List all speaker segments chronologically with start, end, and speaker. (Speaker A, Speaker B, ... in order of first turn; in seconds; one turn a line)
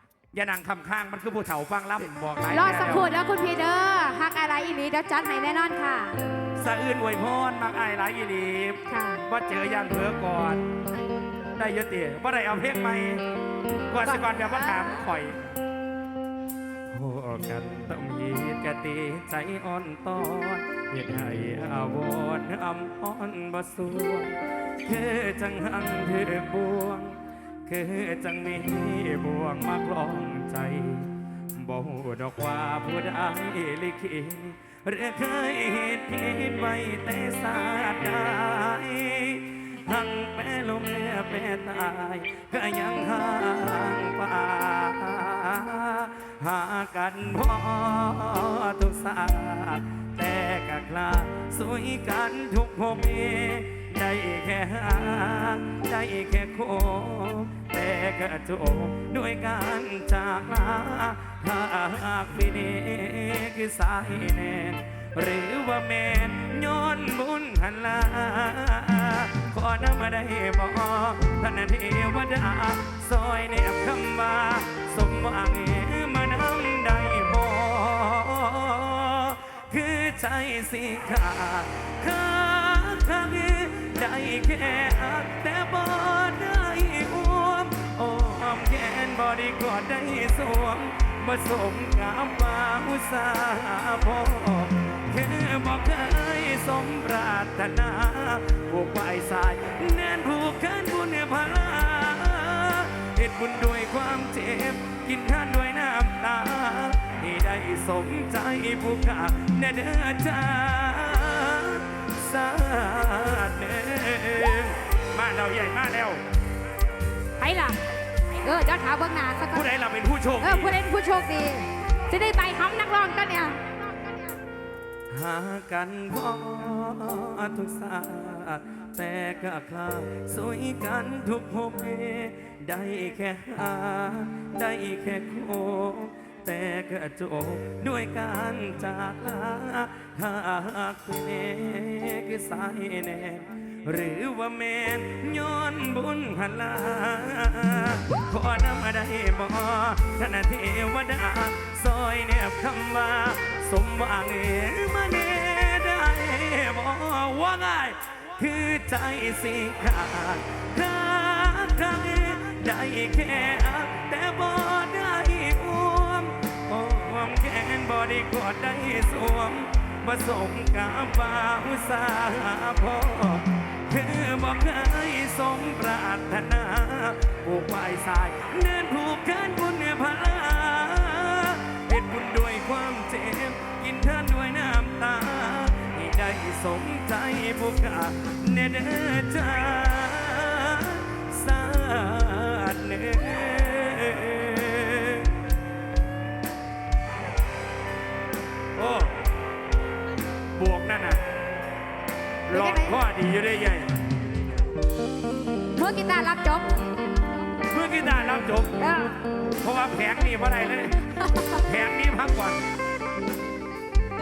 Speaker A: 0.3-3.1
Speaker B: 2.5-6.2
Speaker A: 6.5-10.6
Speaker B: 8.9-9.2
Speaker A: 11.6-13.2
Speaker A: 13.9-15.4
Speaker B: 14.0-15.1
Speaker A: 16.9-116.2
Speaker B: 117.4-117.8
Speaker B: 118.3-119.7
Speaker A: 119.5-120.8
Speaker B: 120.4-124.3
Speaker A: 125.1-195.3
Speaker A: 198.7-199.1
Speaker A: 200.6-201.2
Speaker A: 202.5-203.9
Speaker B: 202.5-203.0
Speaker B: 205.7-206.8
Speaker A: 207.7-208.8
Speaker B: 208.8-209.2
Speaker A: 209.6-212.6
Speaker B: 211.2-211.6